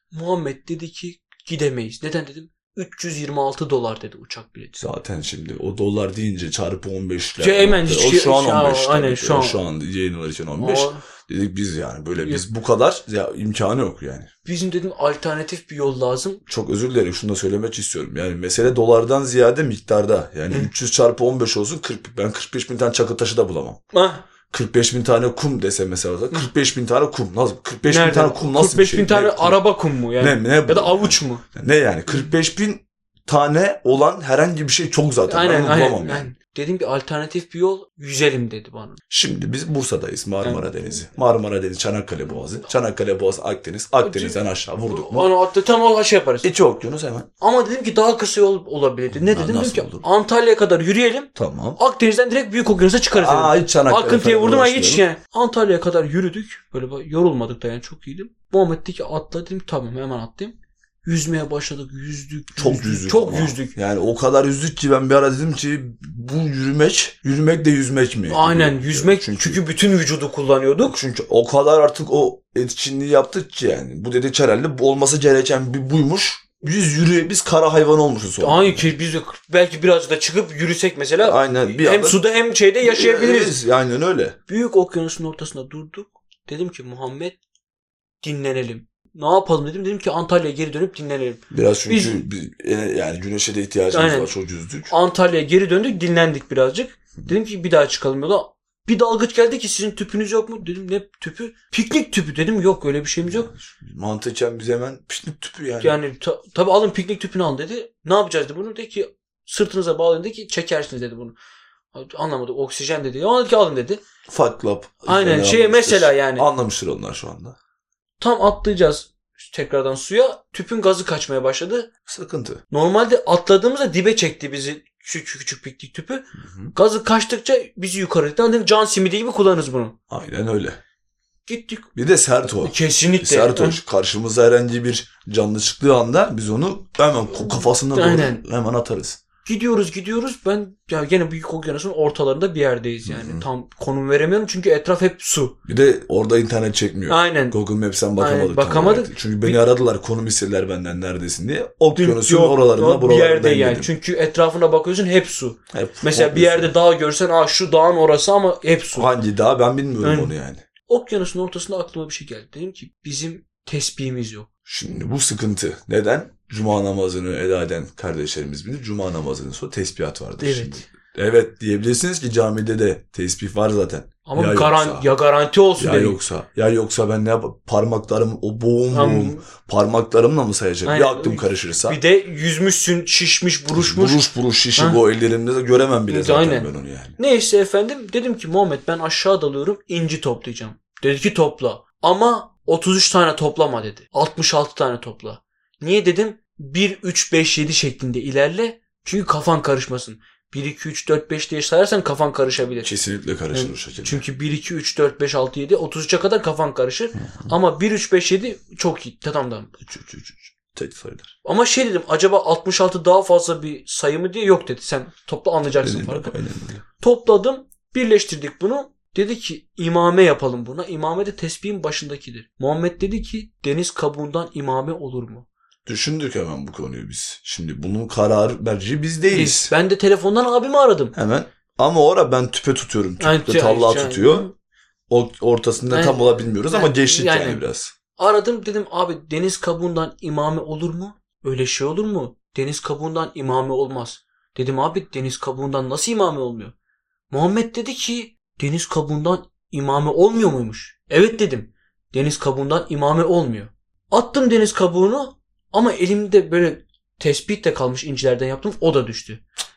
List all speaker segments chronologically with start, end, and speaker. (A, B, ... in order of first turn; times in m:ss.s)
0:00.1-0:04.8 A
0:04.8-0:14.3 B
0:07.4-0:09.6 A
0:10.6-0:11.0 A
0:14.4-0:16.4 A
0:16.5-0:23.8 B
0:23.9-0:24.2 A
0:24.5-0:29.6 B
0:27.9-0:31.4 A
0:30.2-0:36.3 B
0:35.3-0:39.0 A
0:39.1-0:45.3 B
0:44.0-0:46.5 A
0:46.4-0:47.3 B
0:47.4-1:03.8 A
0:49.1-0:50.0 B
0:51.4-0:51.8 B
0:53.1-0:55.0 B
1:02.6-1:09.6 B
1:08.3-1:11.0 A
1:10.8-1:19.0 B
1:18.4-1:23.6 A
1:21.2-1:22.2 B
1:22.8-1:24.4 B
1:24.5-1:27.4 A
1:28.2-1:32.2 A
1:31.5-1:34.9 B
1:33.9-1:34.3 A
1:34.9-1:43.5 A
1:43.3-1:46.0 B
1:45.8-1:51.4 A
1:51.9-1:54.0 A
1:54.3-1:57.6 B
1:55.1-1:56.5 A
1:58.2-2:01.9 A
2:02.1-2:02.6 B
2:02.7-2:10.0 A
2:06.4-2:06.7 B
2:10.1-2:10.8 B
2:11.5-2:11.9 A
2:12.0-2:19.2 B
2:12.6-2:13.8 A
2:17.9-2:18.4 A
2:19.4-2:25.6 A
2:23.1-2:23.5 B
2:25.6-2:33.9 B
2:27.1-2:27.6 A
2:28.2-2:29.7 A
2:32.0-2:39.1 A
2:35.7-2:36.7 B
2:38.9-2:40.6 B
2:40.0-2:40.3 A
2:40.9-2:44.5 A
2:44.7-2:55.1 B
2:50.4-2:50.9 A
2:54.3-2:56.2 A
2:55.8-3:02.0 B
2:58.9-2:59.4 A
3:00.8-3:05.0 A
3:03.7-3:07.2 B
3:06.1-3:22.9 A
3:22.8-3:24.2 B
3:23.5-3:29.7 A
3:27.2-3:27.5 B
3:29.8-3:31.3 B
3:31.4-3:36.3 A
3:35.8-3:36.8 B
3:37.0-3:45.5 A
3:45.9-3:49.7 B
3:49.3-3:51.1 A
3:51.1-3:54.5 B
3:53.2-3:54.5 A
3:55.1-3:57.9 B
3:55.9-3:57.6 A
3:58.2-4:06.7 A
4:07.3-4:19.4 A